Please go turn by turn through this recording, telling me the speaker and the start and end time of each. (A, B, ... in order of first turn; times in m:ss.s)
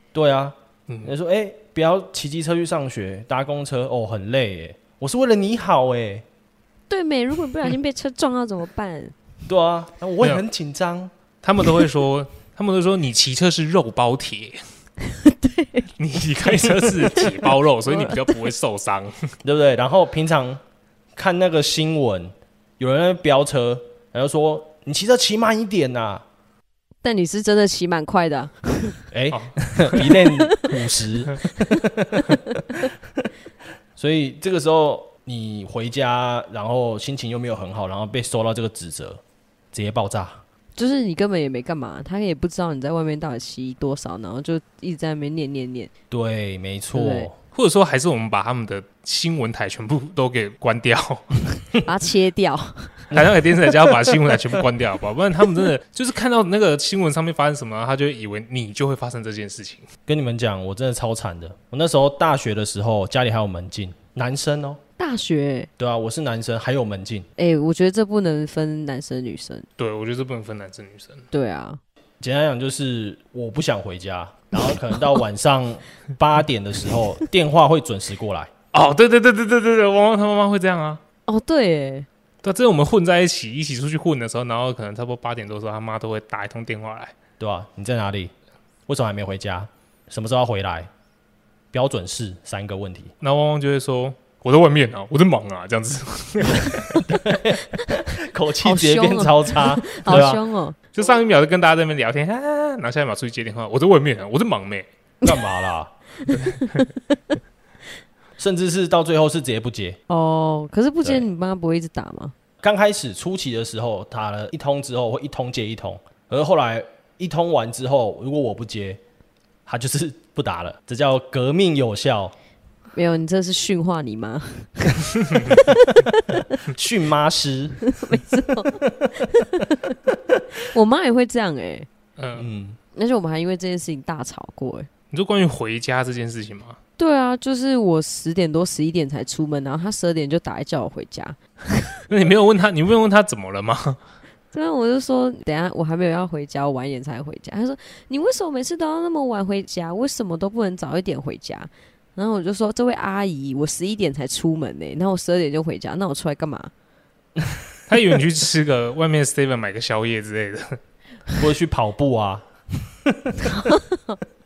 0:00.1-0:06.2 A
0:00.9-0:01.2 B
0:06.9-0:09.2 C
0:09.5-0:11.1 A
0:11.4-0:14.6 B
0:15.0-0:15.9 C
0:16.0-0:19.3 B
0:16.4-0:18.4 C
0:19.4-0:20.6 A
0:21.2-0:26.2 A
0:27.0-0:29.0 C
0:29.1-0:32.3 A
0:29.3-0:30.1 B
0:30.0-0:30.7 C
0:31.4-0:32.9 C
0:34.0-0:39.2 A
0:39.7-0:40.4 A
0:40.8-0:45.9 C
0:46.1-0:47.3 A
0:46.9-0:47.3 C
0:47.5-0:51.7 B
0:51.8-0:53.1 C
0:53.1-0:54.0 A
0:53.1-0:59.9 B
1:00.1-1:04.8 A
1:05.0-1:05.7 C
1:05.8-1:07.3 A
1:07.4-1:09.7 C
1:09.8-1:11.3 B
1:11.3-1:11.8 C
1:12.2-1:18.5 A
1:18.7-1:21.0 B
1:21.3-1:22.1 C
1:22.4-1:27.1 B
1:27.4-1:28.3 A
1:28.9-1:30.9 A
1:31.7-1:33.1 A
1:33.2-1:37.1 B
1:37.1-1:40.4 A
1:38.6-1:40.8 C
1:40.9-1:44.9 B
1:45.2-1:45.9 A
1:46.2-1:47.2 C
1:46.3-1:46.7 B
1:48.4-1:50.0 A
1:50.1-1:52.3 C
1:52.6-1:59.0 A
1:59.7-2:02.3 A
2:02.9-2:06.6 C
2:06.7-2:07.9 A
2:07.9-2:10.0 C
2:10.6-2:11.9 C
2:12.2-2:12.5 B
2:12.4-2:12.8 A
2:13.0-2:14.9 C
2:15.1-2:16.8 B
2:17.0-2:21.8 C
2:22.1-2:24.0 B
2:24.5-2:36.7 C
2:37.9-2:40.8 B
2:41.4-2:43.4 A
2:43.4-2:44.2 C